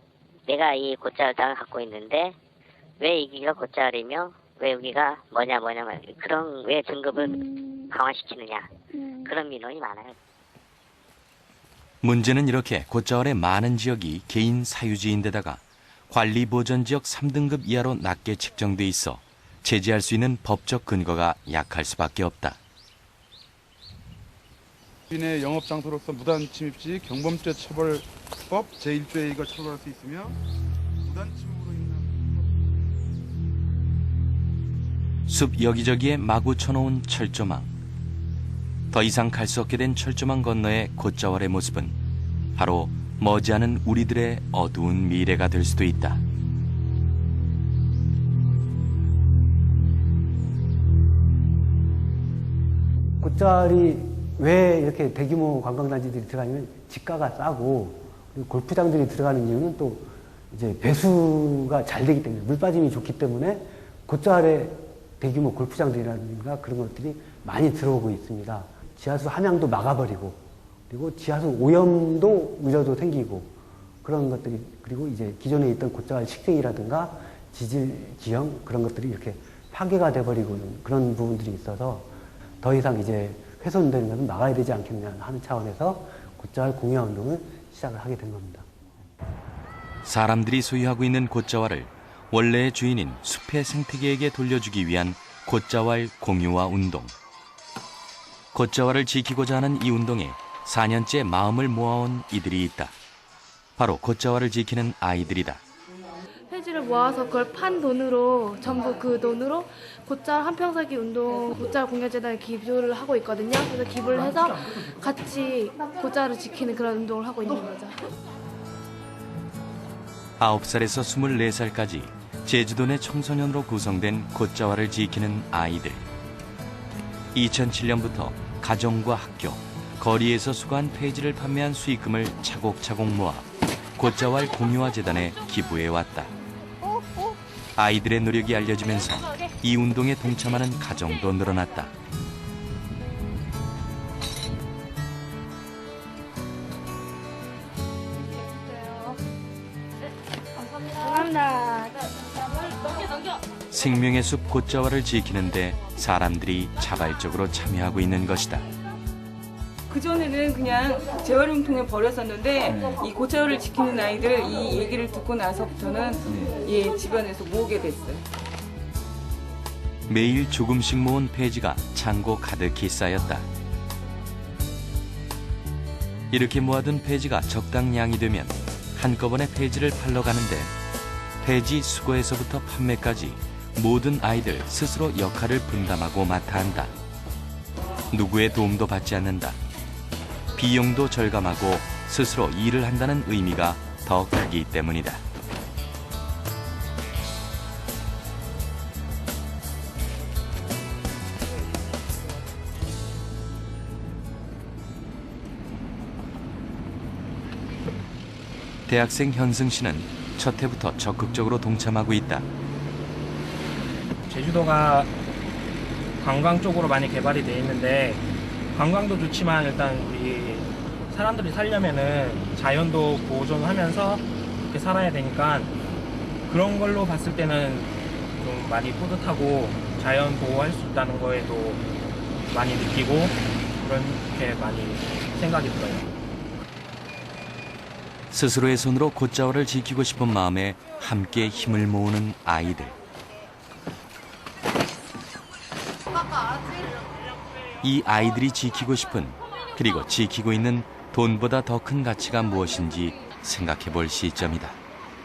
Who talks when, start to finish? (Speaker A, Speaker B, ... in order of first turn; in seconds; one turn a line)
Speaker A: 0.5-2.3
Speaker A: 3.0-10.1
Speaker B: 12.0-22.6
Speaker C: 25.1-30.3
Speaker C: 31.1-32.0
Speaker B: 35.3-37.7
Speaker B: 38.9-42.0
Speaker B: 42.5-46.2
Speaker D: 53.2-82.1
Speaker D: 82.6-88.7
Speaker B: 90.0-97.1
Speaker B: 98.5-102.9
Speaker B: 103.8-105.6
Speaker E: 106.5-118.1
Speaker B: 120.4-126.0
Speaker B: 127.3-136.3
Speaker B: 137.8-141.9
Speaker B: 153.7-158.7
Speaker F: 159.9-168.2
Speaker B: 170.1-173.4
Speaker B: 176.3-180.7
Speaker B: 181.4-186.9
Speaker B: 188.1-189.6
Speaker B: 190.5-195.2
Speaker B: 208.9-212.4
Speaker G: 214.3-215.1
Speaker G: 216.2-218.2
Speaker G: 218.7-225.7
Speaker G: 226.4-231.8
Speaker G: 232.5-236.1
Speaker B: 238.3-242.9
Speaker B: 247.8-254.8